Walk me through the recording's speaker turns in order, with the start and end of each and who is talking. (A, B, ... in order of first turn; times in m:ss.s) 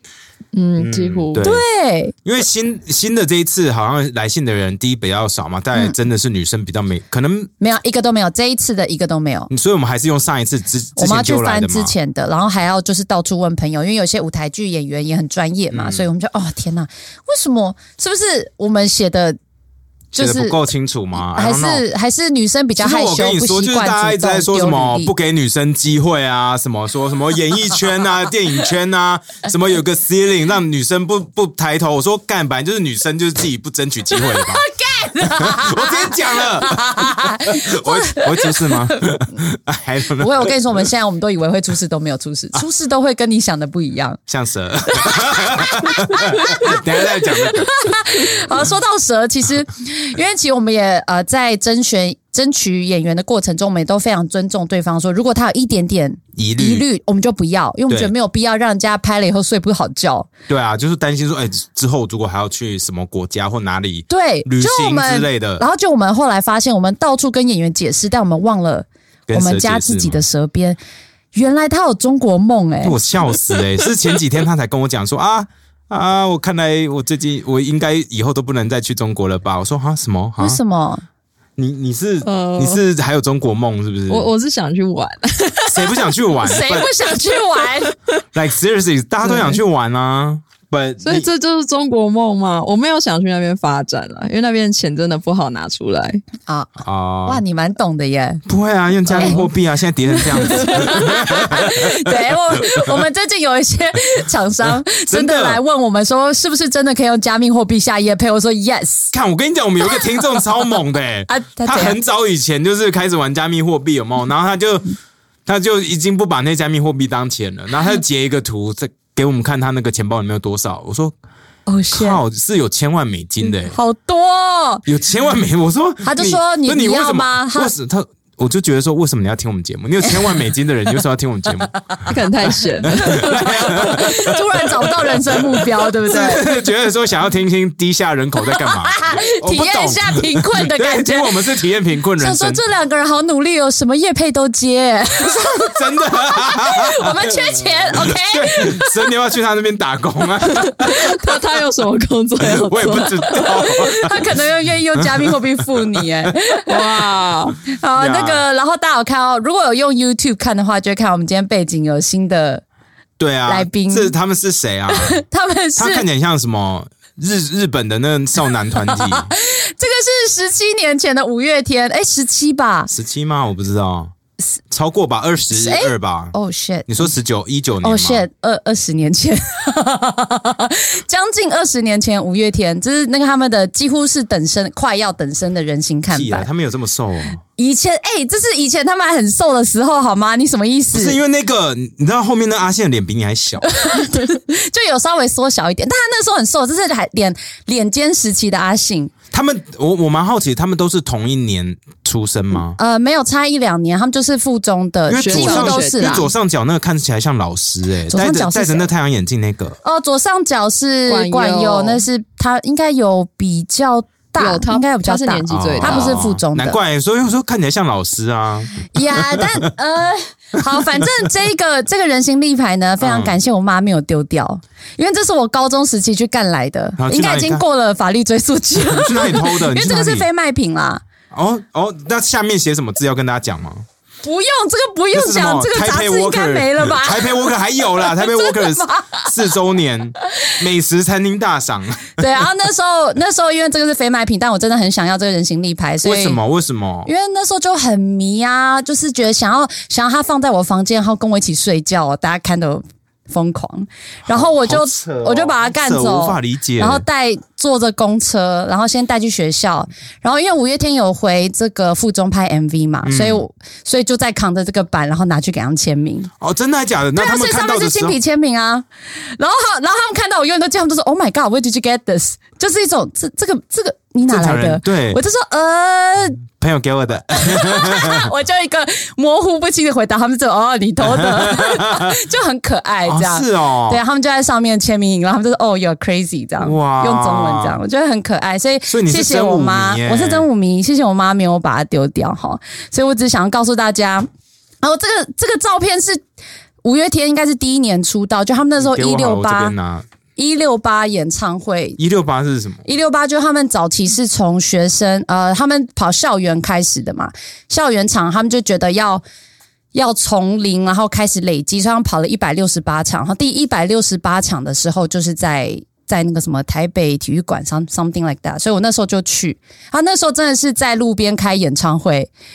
0:00.5-0:01.5 A
0:00.8-0:01.6 B
0:01.4-0:02.1 C
0:02.2-0:07.5 B
0:07.6-0:09.5 C
0:09.5-0:11.9 B
0:11.0-0:19.4 C
0:15.7-0:16.1 B
0:20.1-0:20.6 C
0:20.1-0:21.8 B
0:21.2-0:25.1 C
0:22.8-0:34.6 B
0:34.1-0:39.1 C
0:35.2-0:40.5 B
0:40.2-0:44.2 C
0:44.3-0:48.3 B
0:44.9-1:00.3 C
0:56.4-0:56.8 B
1:00.5-1:05.6 B
1:04.1-1:10.8 C
1:09.3-1:10.2 B
1:11.3-1:13.0 C
1:12.8-1:20.6 B
1:20.4-1:21.0 C
1:21.6-1:24.3 B
1:22.2-1:22.8 A
1:24.1-1:26.1 A
1:25.7-1:26.9 B
1:26.4-1:27.9 C
1:28.3-1:31.3 B
1:29.2-1:29.6 A
1:31.0-1:36.2 A
1:36.4-1:38.4 C
1:36.8-1:37.4 B
1:38.4-1:42.1 B
1:39.1-1:39.4 C
1:40.1-1:49.1 C
1:44.9-1:45.6 B
1:49.1-1:54.9 B
1:49.8-1:50.7 C
1:51.3-1:52.0 C
1:55.4-2:01.1 B
2:01.7-2:02.2 C
2:01.9-2:03.8 B
2:03.7-2:04.8 C
2:04.8-2:11.9 B
2:06.0-2:07.7 C
2:11.8-2:12.1 C
2:12.1-2:13.4 A
2:12.8-2:22.6 B
2:12.9-2:16.6 C
2:18.5-2:21.4 C
2:22.2-2:28.9 C
2:25.5-2:31.2 B
2:30.8-2:33.9 A
2:32.4-2:34.4 B
2:33.6-2:37.0 C
2:34.9-2:36.3 B
2:36.7-2:37.6 A
2:37.7-2:42.6 C
2:37.9-2:38.4 B
2:43.2-2:45.2 B
2:43.5-2:44.1 C
2:44.9-2:46.0 C
2:45.8-2:49.3 B
2:48.8-2:52.9 C
2:52.9-2:54.1 B
2:54.7-2:56.3 B
2:55.5-2:57.1 C
2:56.9-2:58.2 B
2:57.8-3:06.5 C
3:06.1-3:07.4 B
3:07.6-3:11.2 C
3:10.9-3:13.7 B
3:13.6-3:19.1 C
3:19.3-3:22.8 B
3:22.8-3:26.3 C
3:25.1-3:29.8 B
3:25.2-3:26.2 A
3:28.1-3:28.9 C
3:29.8-3:36.8 C
3:31.1-3:32.0 A
3:34.4-3:36.1 A
3:35.5-3:39.7 B
3:38.9-3:51.0 C
3:43.0-3:43.3 B
3:47.0-3:47.6 B
3:48.9-3:50.2 B
3:51.3-3:53.8 B
3:54.2-3:59.3 C
3:55.1-4:02.2 B
4:02.2-4:06.4 C
4:06.0-4:07.1 B
4:07.0-4:26.3 C
4:14.3-4:17.0 B
4:23.0-4:23.4 B
4:26.4-4:28.2 B
4:27.2-4:36.4 C
4:34.3-4:35.2 B
4:36.5-4:38.3 B
4:37.4-4:54.3 C
4:41.0-4:42.2 B
4:43.1-4:44.0 B
4:46.6-4:47.8 B
4:48.9-4:50.5 B
4:54.8-4:56.2 C
4:56.8-4:59.7 C
4:58.8-5:00.0 B
5:00.4-5:02.0 C
5:02.0-5:02.8 B
5:02.8-5:09.2 C
5:09.9-5:22.3 C